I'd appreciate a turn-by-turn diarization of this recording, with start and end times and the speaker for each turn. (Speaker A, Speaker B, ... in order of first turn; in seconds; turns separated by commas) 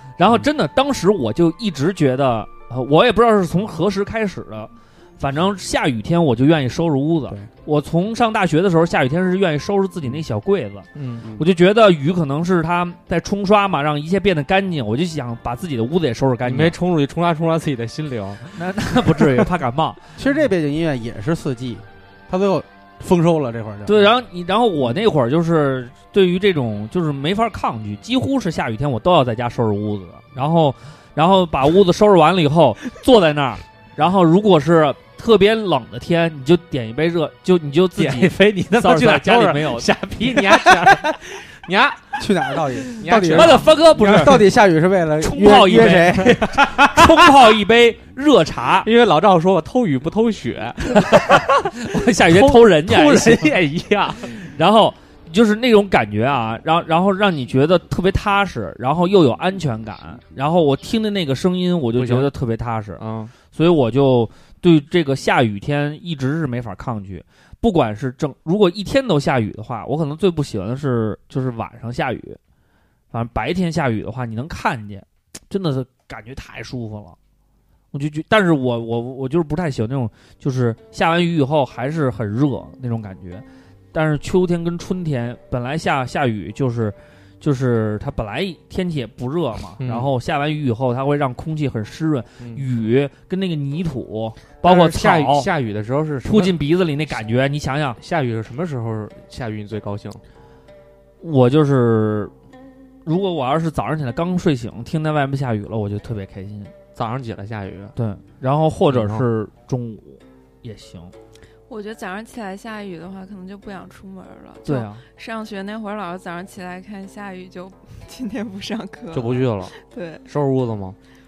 Speaker A: 0.2-16.8, Speaker B: 10.9-11.2, Speaker B: 16.4-19.4, Speaker A: 18.6-20.0, Speaker C: 20.1-24.1, Speaker A: 23.9-39.9, Speaker B: 38.0-44.5, Speaker C: 42.2-46.5, Speaker A: 43.1-44.5, Speaker A: 45.2-48.9, Speaker B: 46.1-47.2, Speaker B: 48.8-54.5, Speaker A: 51.0-53.5, Speaker A: 54.3-63.0, Speaker B: 62.0-62.3, Speaker B: 63.0-63.3, Speaker A: 63.5-72.4, Speaker A: 73.1-77.2, Speaker A: 77.9-95.5, Speaker B: 89.8-90.1, Speaker B: 92.4-92.6, Speaker B: 94.6-96.6, Speaker A: 96.2-98.0, Speaker B: 98.0-100.2, Speaker A: 101.2-102.3, Speaker A: 103.0-106.7, Speaker B: 106.9-107.9, Speaker A: 108.0-111.1, Speaker B: 108.9-109.3, Speaker D: 111.7-120.2, Speaker A: 114.6-115.0, Speaker B: 119.1-119.7, Speaker B: 120.2-121.0